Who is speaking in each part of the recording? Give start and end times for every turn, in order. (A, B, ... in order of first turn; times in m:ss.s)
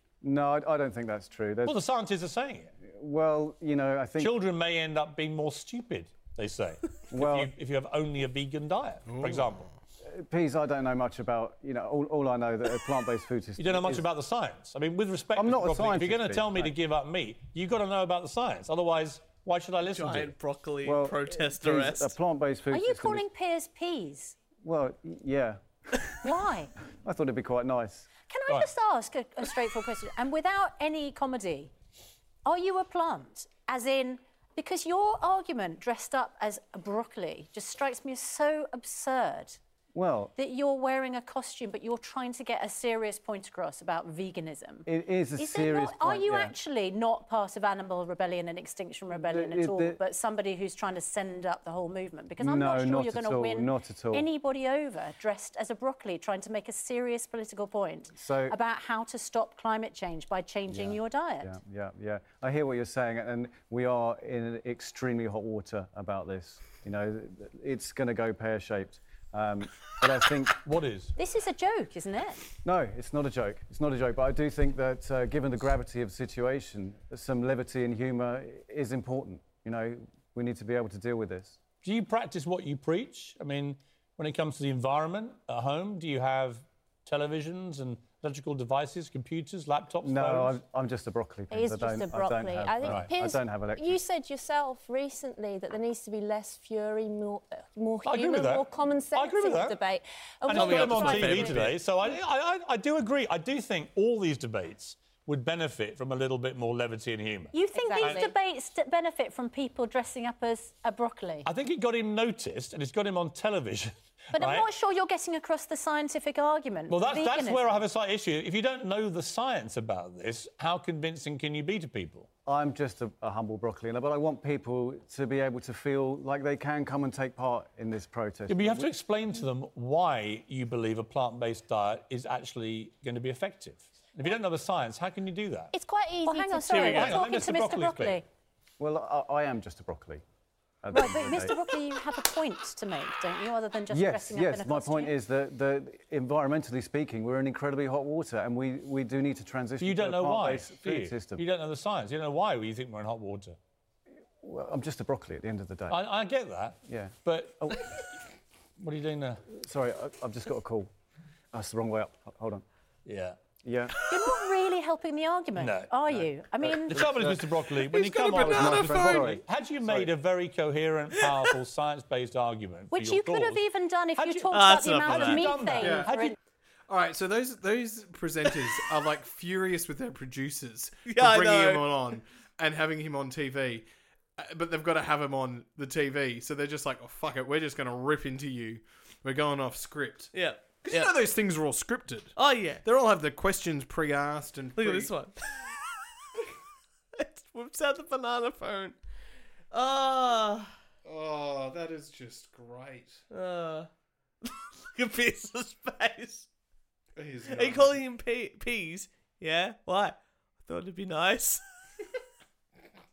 0:00.2-0:01.8 A
0:01.6-0:02.7 B
0:02.8-0:04.4 A
0:04.2-0:09.6 B
0:07.1-0:07.5 A
0:09.1-0:09.8 C
0:10.0-0:14.1 A
0:13.6-0:20.3 B
0:15.3-0:16.8 A
0:19.9-0:22.2 D
0:20.8-0:23.2 A
0:22.7-0:24.4 E
0:24.5-0:26.3 A
0:26.2-0:26.7 E
0:27.0-0:28.1 A
0:28.2-0:31.7 E
0:32.4-0:39.6 E
0:39.9-0:40.3 A
0:40.4-1:01.5 E
0:44.9-0:46.5 A
0:49.1-0:50.0 A
0:52.4-0:54.3 A
0:58.1-0:58.6 A
1:00.7-1:10.6 A
1:10.6-1:11.1 B
1:11.2-1:12.5 E
1:12.6-1:21.6 A
1:21.8-1:30.6 B
1:30.0-1:34.0 A
1:31.5-1:32.9 E
1:32.2-1:42.1 F
1:32.9-1:33.1 B
1:38.0-1:39.8 B
1:40.4-1:48.3 B
1:40.5-1:41.8 D
1:40.8-1:41.8 E
1:47.5-1:51.5 E
1:47.7-1:48.3 F
1:51.4-1:54.7 B
1:54.3-1:57.8 E
1:56.9-2:02.3 B
2:02.5-2:08.9 A
2:08.5-2:15.7 B
2:15.7-2:17.2 F
2:16.2-2:18.2 E
2:16.7-2:17.1 D
2:16.8-2:18.2 B
2:18.8-2:20.2 A
2:20.8-2:21.8 A
2:20.9-2:25.2 E
2:23.9-2:31.4 A
2:29.8-2:33.6 B
2:34.4-2:36.0 A
2:35.9-2:37.7 B
2:36.9-2:37.9 A
2:38.8-2:39.4 B
2:39.5-2:40.9 A
2:41.5-2:42.6 A
2:43.1-2:43.4 B
2:43.6-2:44.0 A
2:44.0-2:44.3 B
2:44.0-2:47.1 E
2:45.6-2:46.0 B
2:46.1-2:50.1 A
2:46.9-2:53.6 B
2:47.9-2:49.4 C
2:52.9-2:56.4 E
2:54.2-2:56.3 B
2:54.5-2:55.5 D
2:55.8-2:56.2 C
2:56.9-3:15.1 C
3:01.1-3:01.9 D
3:10.3-3:11.2 D
3:12.4-3:12.8 D
3:14.8-3:15.7 D
3:17.2-3:19.0 D
3:19.7-3:20.8 D
3:21.0-3:23.2 C
3:23.3-3:23.9 D
3:24.4-3:26.5 D
3:27.2-3:28.0 C
3:27.5-3:31.6 D